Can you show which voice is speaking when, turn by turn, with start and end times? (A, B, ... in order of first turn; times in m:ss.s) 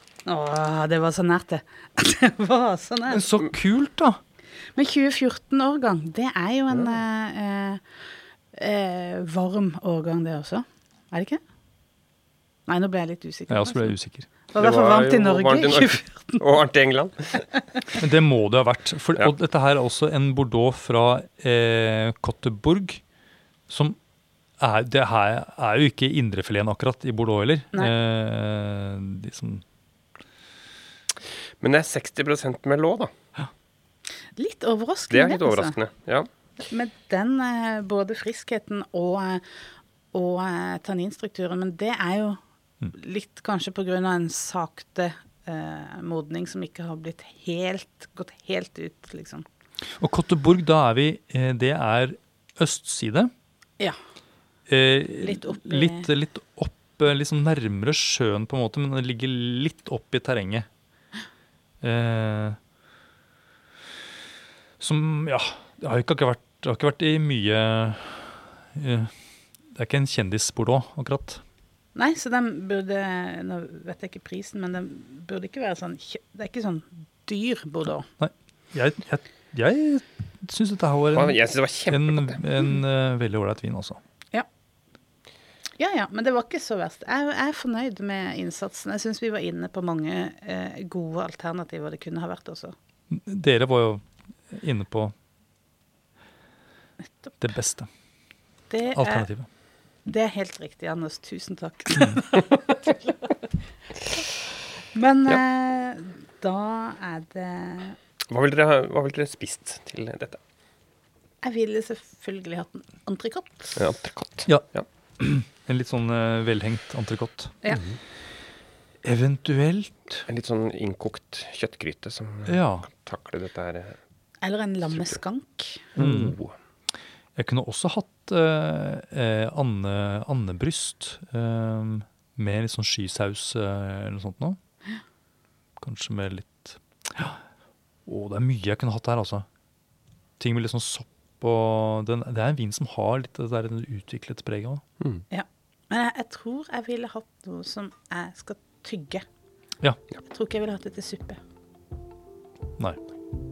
0:00.3-0:03.3 A
0:03.1-0:04.2 B
0:04.8-0:07.8 A
0:08.5-0:11.4 A
0:12.7-0:13.9 A
0:13.5-0:14.3 B
0:14.5-0:16.4 A
0:14.6-0:17.5 C
0:18.0-0:23.0 B
0:23.7-0:24.0 B
0:24.6-0:29.6 B
0:31.6-0:33.1 C
0:34.4-0:35.8 A
0:35.1-0:36.3 C
0:36.7-0:39.5 A
0:40.1-0:42.4 A
0:42.9-0:49.5 A
0:50.0-0:53.3 B
0:54.7-1:00.7 B
0:55.2-0:56.1 A
1:01.8-1:02.6 B
1:04.8-1:09.1 B
1:09.7-1:11.4 B
1:12.0-1:18.1 A
1:18.2-1:24.0 B
1:21.1-1:22.4 C
1:25.8-1:32.8 A
1:33.1-1:35.1 B
1:37.4-1:37.9 B
1:38.7-1:39.3 A
1:38.9-1:39.5 B
1:40.1-1:43.3 A
1:45.0-1:48.0 A
1:48.3-1:50.4 C
1:51.4-1:53.8 A
1:53.8-1:54.9 C
1:55.2-1:57.6 B
1:59.0-2:00.3 B
2:00.3-2:04.0 C
2:02.5-2:02.9 B
2:04.4-2:05.9 A
2:06.0-2:06.5 C
2:06.0-2:06.4 B
2:07.4-2:14.6 B
2:15.8-2:17.4 B
2:18.1-2:19.5 B
2:20.4-2:24.8 B
2:25.3-2:29.2 A
2:30.2-2:31.4 A